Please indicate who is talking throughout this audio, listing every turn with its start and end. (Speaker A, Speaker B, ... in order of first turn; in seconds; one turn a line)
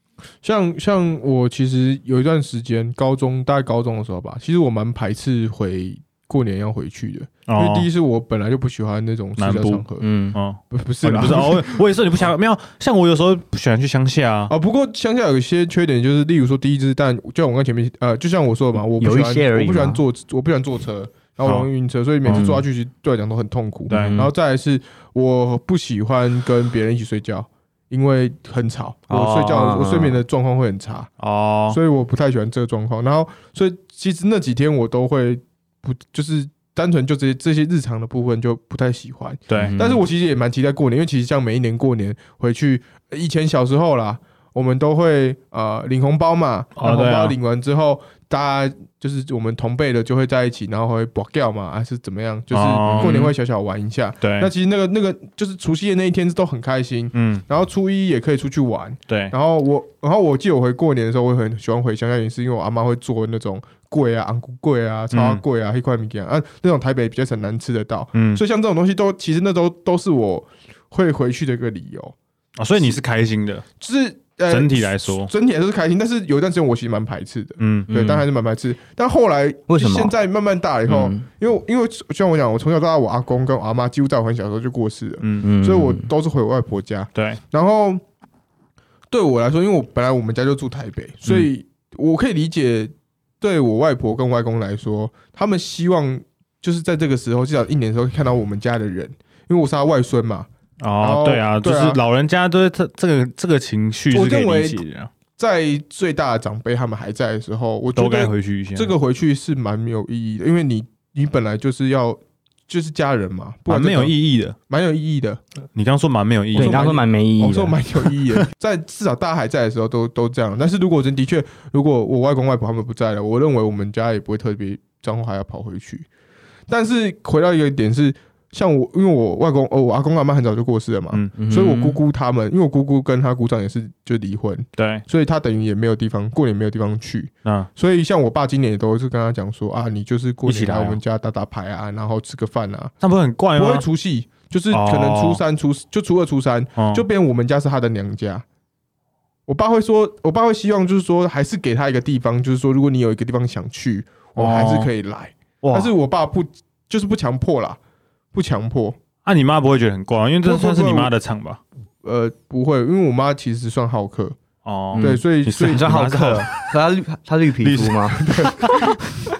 Speaker A: 0.4-10.0
Speaker B: 7.5-7.9
Speaker B: 9.4-14.5
Speaker C: 10.0-10.4
Speaker A: 10.7-11.8
Speaker A: 14.5-31.1
Speaker C: 19.0-20.0
Speaker C: 22.3-22.6
Speaker C: 23.9-24.3
Speaker B: 23.9-24.1
Speaker C: 29.1-30.2
Speaker B: 31.2-31.8
Speaker A: 31.7-72.2
Speaker B: 39.5-39.8
Speaker C: 39.5-40.0
Speaker B: 46.8-47.4
Speaker B: 52.5-53.3
Speaker B: 54.2-54.5
Speaker B: 57.1-57.4
Speaker B: 59.1-59.3
Speaker B: 65.1-65.4
Speaker B: 68.2-68.4
Speaker B: 72.6-73.7
Speaker A: 73.8-88.0
Speaker B: 74.5-75.3
Speaker B: 77.6-77.9
Speaker C: 77.9-78.2
Speaker C: 79.7-80.1
Speaker C: 80.9-81.3
Speaker B: 85.2-85.5
Speaker C: 85.4-86.1
Speaker B: 87.2-87.4
Speaker A: 89.1-100.5
Speaker B: 100.8-105.1
Speaker A: 101.0-102.0
Speaker A: 104.1-104.8
Speaker A: 105.4-114.2
Speaker B: 108.0-108.9
Speaker B: 113.7-114.6
Speaker A: 114.7-115.4
Speaker B: 115.8-116.9
Speaker A: 116.5-126.1
Speaker C: 116.6-117.8
Speaker A: 126.7-142.9
Speaker C: 131.4-132.0
Speaker B: 134.8-135.0
Speaker B: 140.5-141.0
Speaker B: 143.0-143.8
Speaker A: 143.6-148.4
Speaker B: 144.7-145.4
Speaker B: 146.8-147.1
Speaker A: 149.5-157.8
Speaker B: 154.4-154.9
Speaker B: 155.6-155.9
Speaker A: 158.3-159.0
Speaker B: 159.2-161.6
Speaker A: 160.4-161.1
Speaker A: 162.0-164.4
Speaker B: 164.7-166.7
Speaker C: 164.9-168.3
Speaker A: 165.0-165.9
Speaker B: 167.6-168.9
Speaker A: 168.2-168.9